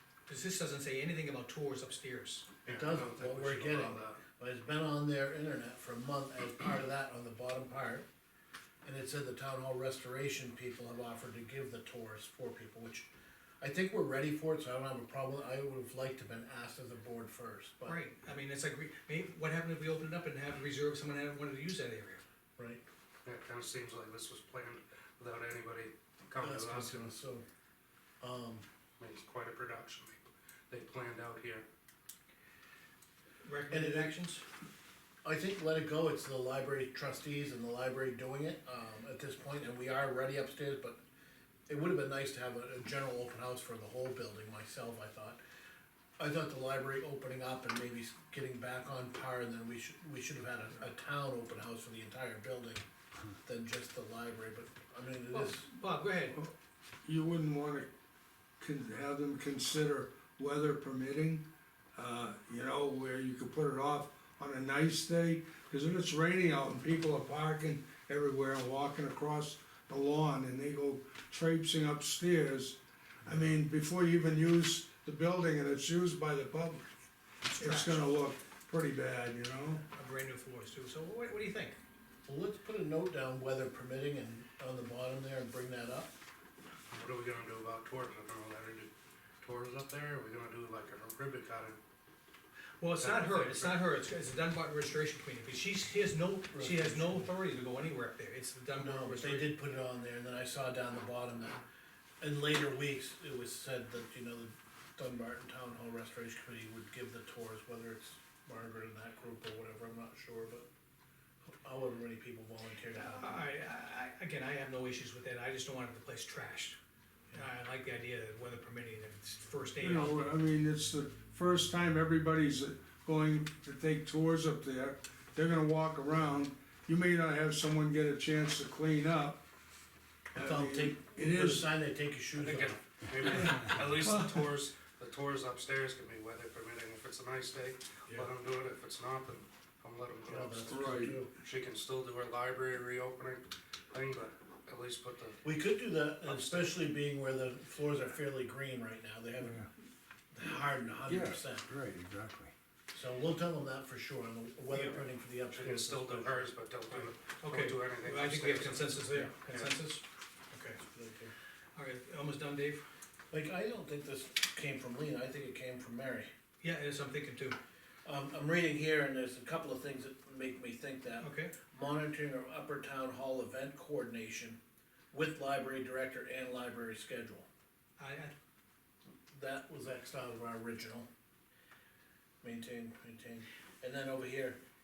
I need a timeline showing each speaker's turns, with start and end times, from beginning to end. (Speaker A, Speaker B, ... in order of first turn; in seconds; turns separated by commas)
Speaker A: 0.3-2.5, Speaker B: 2.6-4.2, Speaker C: 2.7-8.1, Speaker C: 8.8-13.1, Speaker C: 13.6-18.0, Speaker A: 17.8-22.2, Speaker C: 22.6-22.8, Speaker B: 23.2-27.1, Speaker C: 26.4-27.4, Speaker C: 28.2-28.7, Speaker B: 29.0-31.7, Speaker A: 33.4-34.4, Speaker C: 33.7-34.2, Speaker C: 35.2-41.0, Speaker C: 41.7-45.4, Speaker C: 46.2-52.9, Speaker C: 53.4-55.7, Speaker A: 55.3-56.4, Speaker D: 57.0-57.9, Speaker D: 58.6-61.5, Speaker D: 62.0-76.9, Speaker A: 77.5-78.0, Speaker D: 77.6-79.8, Speaker A: 79.9-81.8, Speaker C: 82.3-86.1, Speaker B: 86.9-91.8, Speaker A: 92.8-99.5, Speaker B: 93.0-93.8, Speaker C: 96.5-97.3, Speaker C: 98.8-101.6, Speaker C: 102.2-110.7, Speaker C: 111.5-113.4, Speaker A: 112.9-116.8, Speaker A: 117.3-120.3, Speaker D: 119.8-129.4, Speaker D: 130.3-131.7, Speaker C: 130.3-132.8, Speaker B: 132.3-145.4, Speaker D: 133.9-134.4, Speaker C: 140.3-141.3, Speaker D: 140.7-141.2, Speaker C: 145.4-149.7, Speaker B: 146.2-146.8, Speaker C: 150.3-151.7, Speaker D: 151.1-152.5, Speaker C: 152.9-157.1, Speaker A: 154.7-155.0, Speaker B: 155.5-159.8, Speaker A: 157.4-160.8, Speaker C: 160.9-161.3, Speaker A: 161.8-162.8, Speaker C: 163.3-166.3, Speaker A: 166.6-167.6, Speaker C: 168.1-174.6, Speaker A: 171.2-171.5, Speaker C: 175.1-177.5, Speaker A: 178.0-178.3, Speaker C: 179.3-181.1, Speaker C: 182.4-184.6